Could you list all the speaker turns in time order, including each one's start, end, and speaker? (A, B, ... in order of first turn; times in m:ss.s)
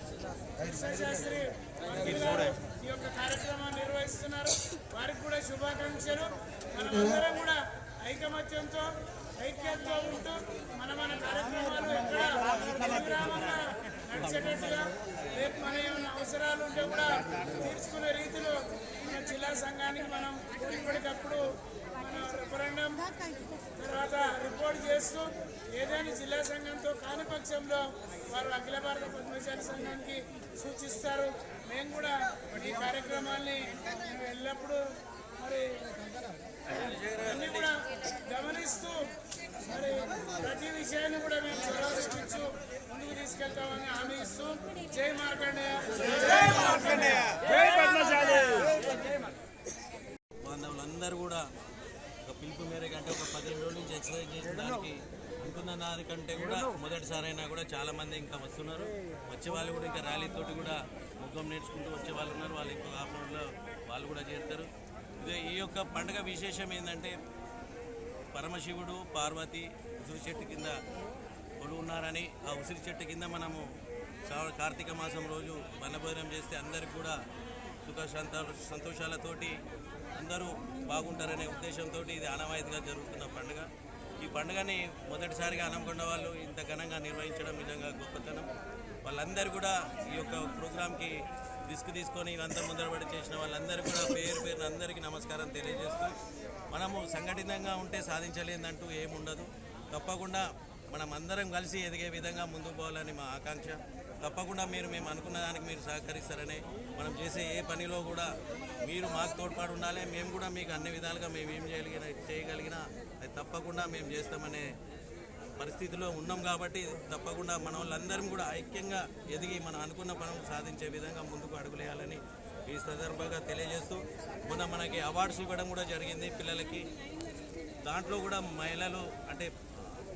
0:00.6-0:13.6 A
0:01.9-0:02.5 B
0:12.4-0:15.5 B
0:14.4-0:36.0 A
0:36.6-0:37.7 B
0:37.6-0:48.2 A
0:46.3-0:47.5 B
0:48.1-0:48.7 B
0:50.4-0:51.5 B
0:52.3-1:07.2 B
1:08.3-1:10.8 B
1:11.6-1:13.6 B
1:14.2-1:17.2 B
1:17.8-1:19.6 B
1:20.1-1:23.7 B
1:24.2-1:28.5 B
1:29.0-1:31.2 B
1:31.7-1:36.1 B
1:36.7-1:48.3 B
1:48.8-1:54.7 B
1:55.6-2:06.9 B
2:07.8-2:09.5 B